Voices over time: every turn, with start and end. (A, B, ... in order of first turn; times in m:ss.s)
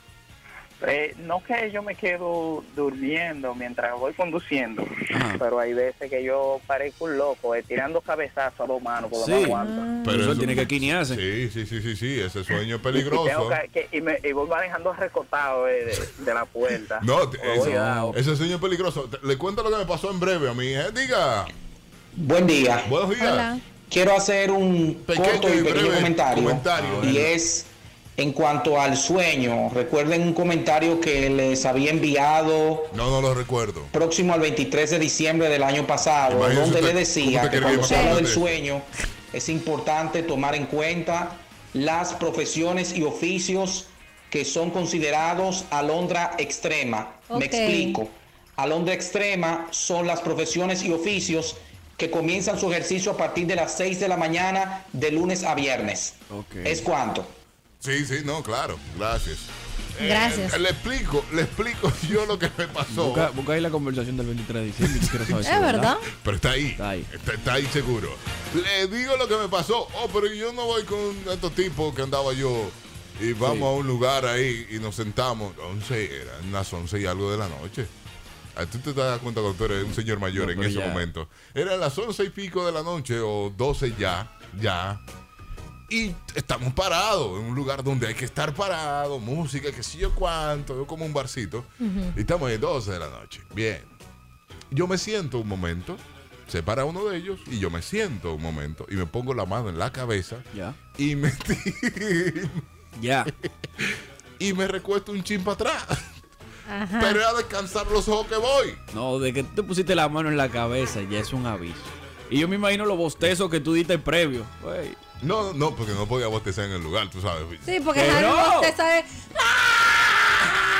0:00.8-0:09.9 A
0:05.1-0:05.4 B
0:09.2-0:11.2 B
0:09.6-0:10.7 C
0:10.0-0:13.6 D
0:12.9-0:18.2 A
0:17.0-0:21.5 D
0:17.5-0:18.2 B
0:22.2-0:22.9 E
0:22.8-0:23.5 D
0:23.2-0:23.6 C
0:23.9-0:33.0 E
0:25.1-0:27.3 D
0:26.8-0:27.3 B
0:32.9-0:33.9 D
0:33.9-0:57.3 E
0:36.3-0:38.5 D
0:37.7-0:38.2 C
0:47.3-0:48.0 C
0:56.3-0:56.9 B
0:57.8-1:03.3 D
1:00.0-1:00.6 C
1:02.9-1:06.0 B
1:05.0-1:05.4 D
1:05.4-1:06.0 C
1:06.1-1:17.9 D
1:06.8-1:07.1 B
1:13.4-1:13.7 B
1:18.6-1:25.0 D
1:19.8-1:21.0 B
1:25.9-1:34.0 D
1:31.8-1:32.2 C
1:34.7-1:40.4 D
1:41.0-1:42.6 D
1:43.0-1:43.3 B
1:43.4-1:46.2 D
1:46.7-1:47.2 C
1:47.0-1:48.8 D
1:48.9-1:55.0 B
1:55.2-1:57.7 D
1:57.6-2:00.6 C
1:58.0-1:58.8 B